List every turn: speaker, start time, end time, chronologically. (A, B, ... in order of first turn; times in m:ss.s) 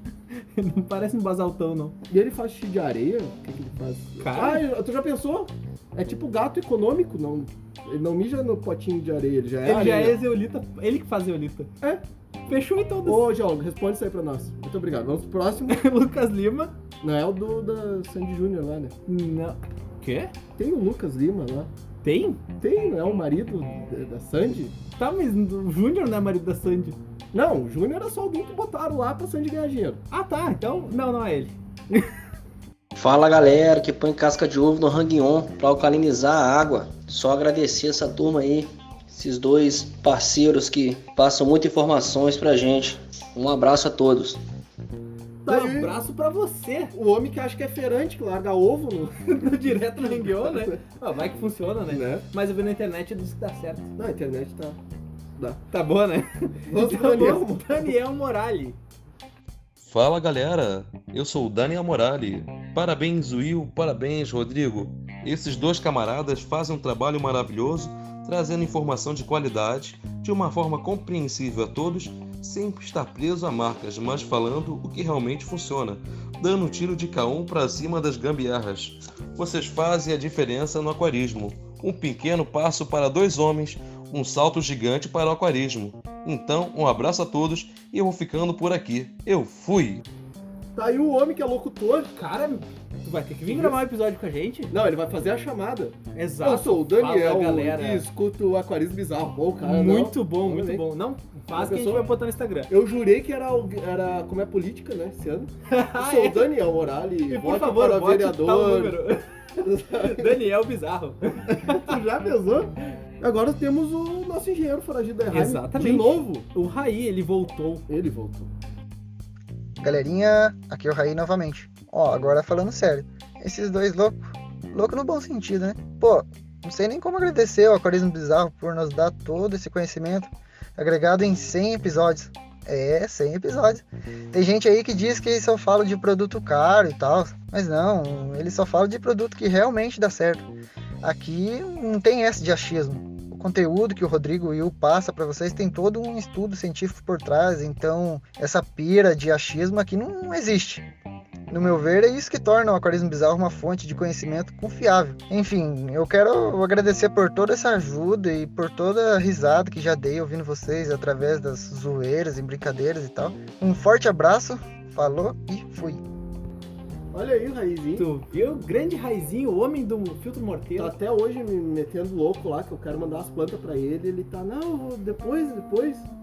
0:00.3-0:01.9 A
0:02.1-0:10.2 B
0:04.2-0:04.6 A
0:09.6-0:11.7 A
0:12.5-0:13.3 A
0:13.0-0:15.8 B
0:15.7-0:16.7 A
0:17.0-0:18.9 B
0:19.0-0:20.3 A
0:20.6-0:21.7 B
0:22.0-0:22.4 A
0:22.6-0:24.7 B
0:25.0-0:27.0 A
0:27.3-0:30.0 B
0:30.1-0:32.0 A
0:33.0-0:44.4 C
0:45.4-0:45.9 B
0:45.5-0:46.9 A
0:46.9-0:50.8 B
0:49.3-0:53.9 A
0:51.9-0:52.2 B
0:54.0-0:54.8 B
0:55.7-0:58.8 A
0:56.7-0:57.9 B
0:59.8-1:30.0 D
1:30.7-1:32.1 B
1:32.1-1:34.7 A
1:33.5-1:33.8 B
1:34.7-1:40.8 B
1:36.1-1:38.0 A
1:39.6-1:42.7 A
1:41.5-1:42.1 B
1:42.7-1:49.0 B
1:45.7-1:46.5 A
1:47.3-1:49.2 A
1:49.6-1:50.4 B
1:50.1-1:51.9 A
1:51.5-1:56.4 B
1:55.3-1:57.9 A
1:57.9-1:58.5 B
1:59.8-2:04.2 E
2:04.7-2:20.5 E
2:21.0-2:30.8 E
2:31.5-2:46.0 E
2:47.1-2:48.1 B
2:48.0-2:50.9 A
2:50.8-2:56.1 B